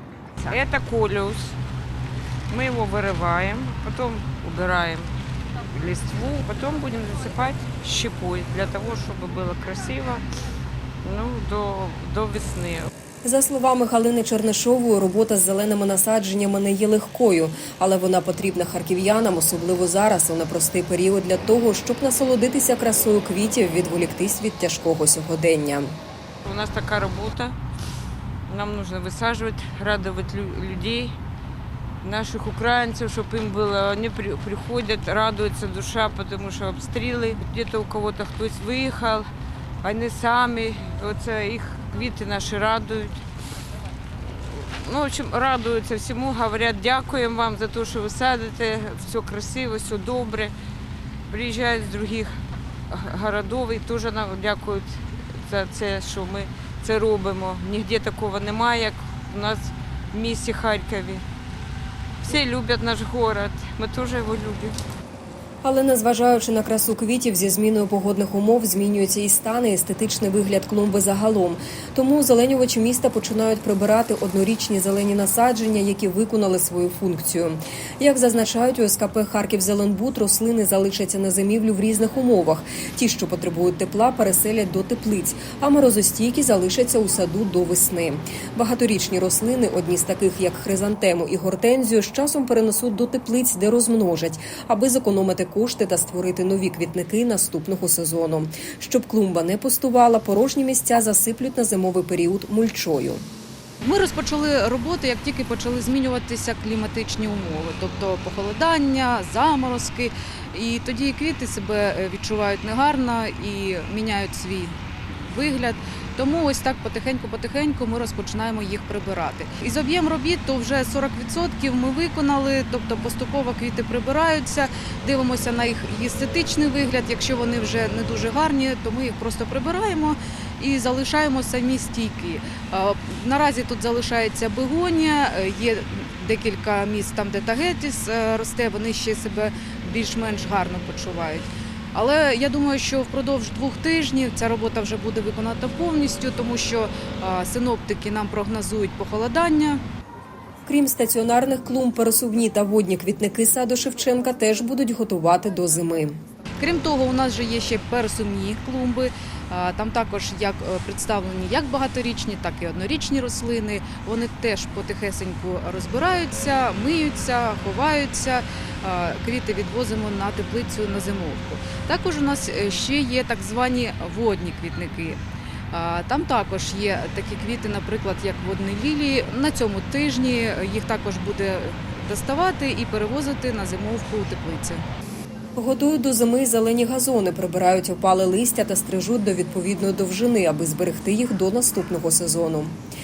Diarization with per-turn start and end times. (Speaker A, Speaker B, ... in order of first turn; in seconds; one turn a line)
Speaker A: 0.4-1.6
Speaker A: 2.5-5.1
Speaker A: 5.7-10.2
Speaker A: 11.0-12.9
Speaker B: 13.2-25.9
Speaker A: 26.4-27.5
Speaker A: 28.5-31.1
Speaker A: 32.0-39.3
Speaker A: 39.8-43.2
Speaker A: 44.4-50.5
Speaker A: 51.3-52.4
Speaker A: 52.9-61.2
Speaker A: 62.2-64.8
Speaker B: 65.6-103.2
Speaker C: 103.8-149.8
Speaker B: 150.7-156.2
Speaker C: 156.6-175.2
Speaker C: 175.7-184.8
Speaker B: 185.6-192.7